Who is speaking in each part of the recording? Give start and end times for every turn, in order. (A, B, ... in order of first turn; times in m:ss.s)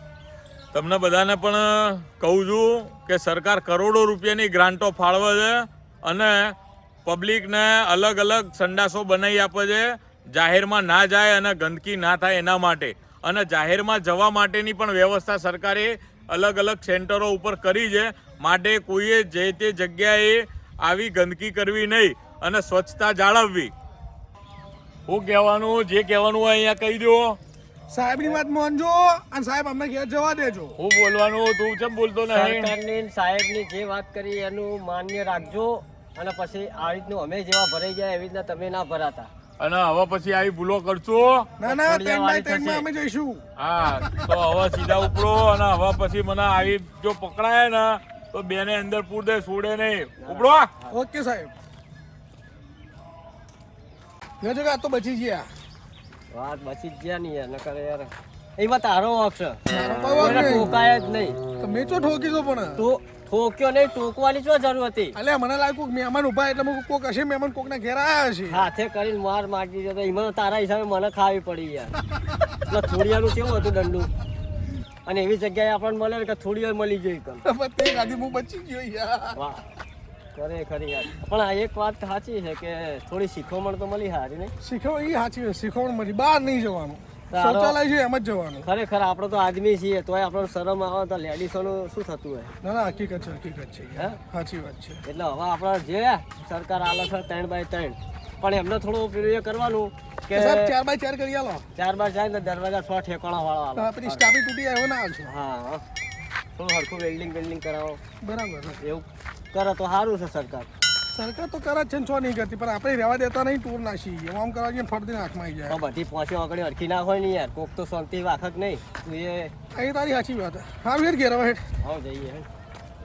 0:00.7-0:23.7 A
0:25.1-0:27.4 A
0:27.9-0:30.8 B
0:30.8-0:32.7 A
0:32.3-0:39.3 C
0:39.6-0:41.5 A
0:41.6-0:43.4 B
0:41.6-0:42.9 C
0:43.6-0:50.7 A
0:50.2-0:51.0 C
0:50.9-0:51.5 B
0:54.4-0:55.5 B
0:56.3-0:59.6 C
0:59.7-1:00.7 B
1:00.2-1:01.4 C
1:01.6-1:02.8 B
1:02.8-1:05.2 C
1:05.2-1:08.6 B
1:08.5-1:11.9 C
1:12.7-1:14.1 C
1:15.1-1:17.4 C
1:17.4-1:19.4 B
1:19.4-1:19.6 C
1:20.4-1:24.5 C
1:24.6-1:28.7 B
1:27.3-1:27.8 C
1:28.6-1:32.5 C
1:32.6-1:35.0 B
1:35.0-1:40.7 C
1:40.3-1:41.6 B
1:41.8-1:44.4 C
1:43.8-1:45.3 B
1:45.2-1:45.8 C
1:46.6-1:48.0 C
1:48.2-1:48.8 B
1:48.8-1:50.7 C
1:51.1-1:55.8 B
1:55.7-1:59.5 C
1:59.7-2:01.6 B
2:01.8-2:02.5 C